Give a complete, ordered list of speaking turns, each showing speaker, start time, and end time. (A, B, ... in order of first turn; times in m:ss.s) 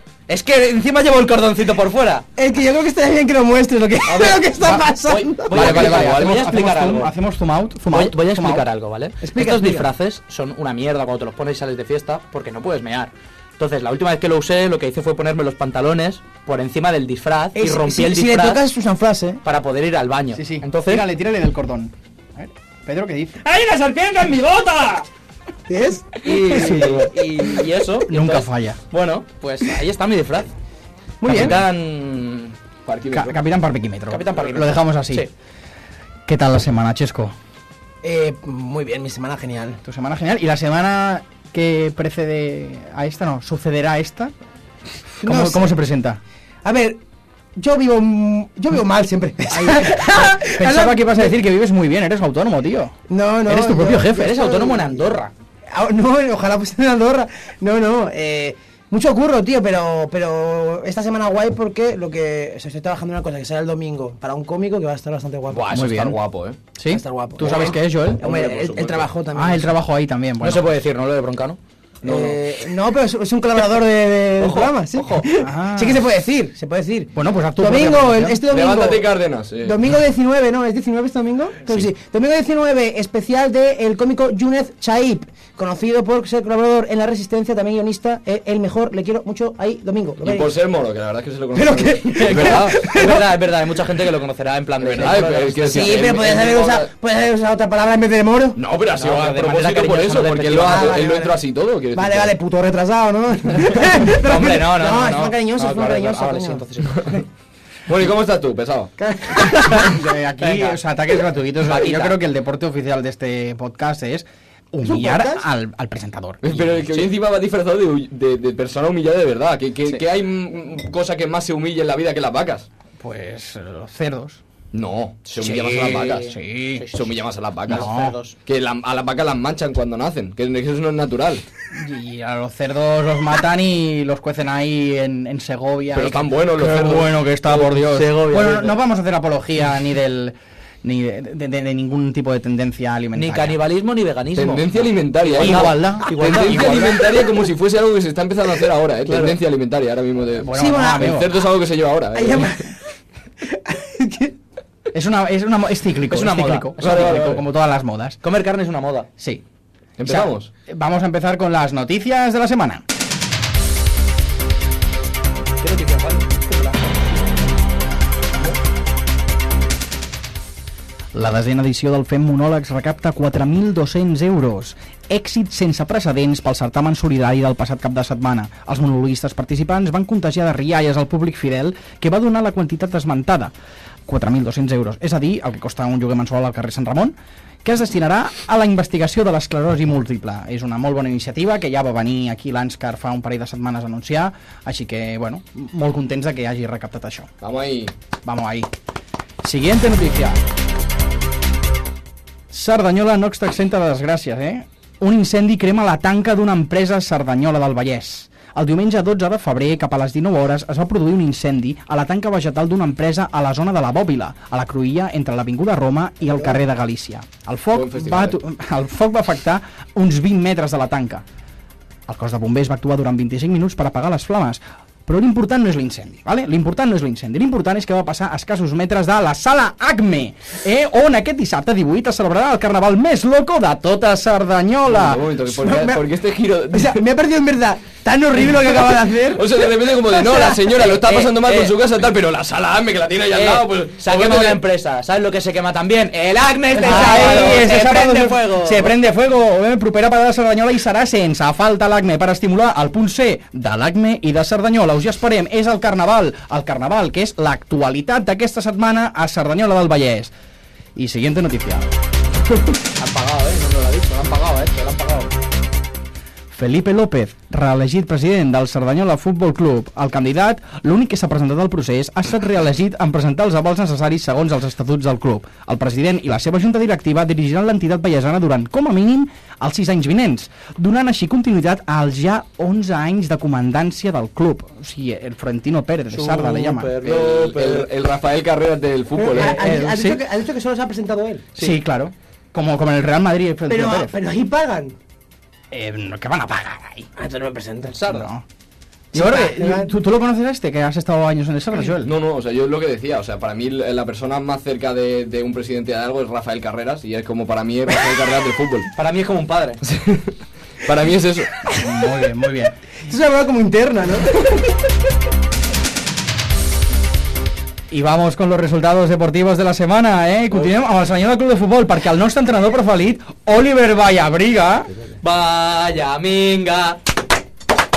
0:00.3-0:02.2 A
0:02.4-0:05.5 B
0:04.1-0:04.4 C
0:04.6-0:04.9 D
0:05.1-0:07.1 A
0:05.4-0:08.6 D
0:05.5-0:06.4 C
0:07.9-0:18.7 A
0:09.2-0:09.9 B
0:17.5-0:19.4 B
0:19.4-0:21.1 A
0:20.3-0:23.4 D
0:23.4-0:25.1 A
0:25.7-0:27.1 B
0:26.2-0:30.5 A
0:26.5-0:27.1 C
0:28.1-0:28.8 D
0:31.2-0:31.6 B
0:31.2-0:32.5 A
0:32.8-0:33.4 C
0:33.1-0:35.2 D
0:34.1-0:35.3 A
0:36.2-0:37.3 D
0:38.0-0:39.8 B
0:39.8-0:44.3 D
0:45.2-0:46.2 D
0:45.2-0:45.8 B
0:46.6-0:47.0 B
0:47.6-0:51.3 B
0:49.5-0:52.9 D
0:53.1-0:55.0 B
0:53.4-0:54.2 D
0:53.8-0:55.3 A
0:55.7-1:05.9 B
1:05.5-1:06.6 C
1:05.7-1:06.2 D
1:06.8-1:08.2 D
1:06.9-1:09.7 B
1:08.1-1:09.1 C
1:09.3-1:10.7 D
1:10.4-1:11.6 A
1:12.0-1:12.4 C
1:12.0-1:30.5 B
1:14.4-1:15.3 A
1:15.4-1:16.1 D
1:17.1-1:18.4 D
1:18.5-1:19.8 C
1:30.2-1:33.1 C
1:31.5-1:33.3 B
1:32.1-1:36.1 A
1:34.8-1:36.9 C
1:35.7-1:38.6 B
1:38.5-1:42.3 C
1:39.0-1:40.9 A
1:40.6-1:41.4 B
1:41.9-1:46.6 B
1:44.2-1:47.0 A
1:47.9-1:48.9 C
1:49.0-1:49.8 B
1:49.5-1:49.8 A
1:49.7-1:57.0 D
1:50.4-1:50.8 A
1:51.6-1:52.2 A
1:54.8-1:55.4 B
1:56.4-2:02.7 C
2:03.0-2:04.4 D
2:04.7-2:06.3 C
2:05.3-2:07.1 A
2:06.0-2:06.9 D
2:06.9-2:07.9 C
2:07.7-2:08.2 D
2:07.7-2:08.4 A
2:08.4-2:11.4 C
2:11.7-2:23.6 D
2:15.9-2:17.1 C
2:17.5-2:18.8 A
2:23.2-2:27.0 A
2:24.4-2:32.5 C
2:25.4-2:27.1 D
2:29.1-2:29.3 A
2:30.4-2:31.3 D
2:30.5-2:31.2 B
2:32.1-2:32.8 B
2:33.4-2:34.3 B
2:34.9-2:38.2 D
2:36.1-2:37.4 A
2:36.3-2:37.4 C
2:38.2-2:39.1 A
2:40.0-2:40.5 C
2:40.0-2:42.8 D
2:45.6-2:47.3 A
2:51.1-3:03.5 D
3:04.1-3:17.3 D
3:17.4-3:17.9 C
3:18.2-3:18.7 D
3:19.4-3:20.4 D
3:22.5-3:41.2 D
3:37.7-3:38.4 C
3:42.1-3:55.3 D
3:54.9-3:57.0 C
3:55.5-3:56.0 B
3:56.7-4:00.8 B
3:58.7-4:04.6 C
4:00.8-4:01.7 A
4:03.3-4:08.9 A
4:06.7-4:08.4 B
4:06.8-4:20.3 D
4:21.0-4:22.0 D
4:23.0-4:25.3 A
4:26.5-4:47.0 D
4:46.1-4:47.9 A
4:47.0-4:49.6 C
4:49.1-4:51.4 B
4:49.4-4:50.2 D
4:51.6-4:54.1 D
4:53.7-4:55.0 B
4:55.7-4:57.1 D
4:57.2-4:58.1 B
4:57.9-4:58.3 A
4:58.1-4:58.4 D
4:59.1-5:02.1 D
4:59.1-4:59.9 B
5:02.0-5:08.9 C
5:08.9-5:09.8 A
5:09.8-5:11.5 C
5:11.8-5:12.8 D
5:13.1-5:14.4 B
5:17.9-5:24.9 D
5:25.2-5:27.0 A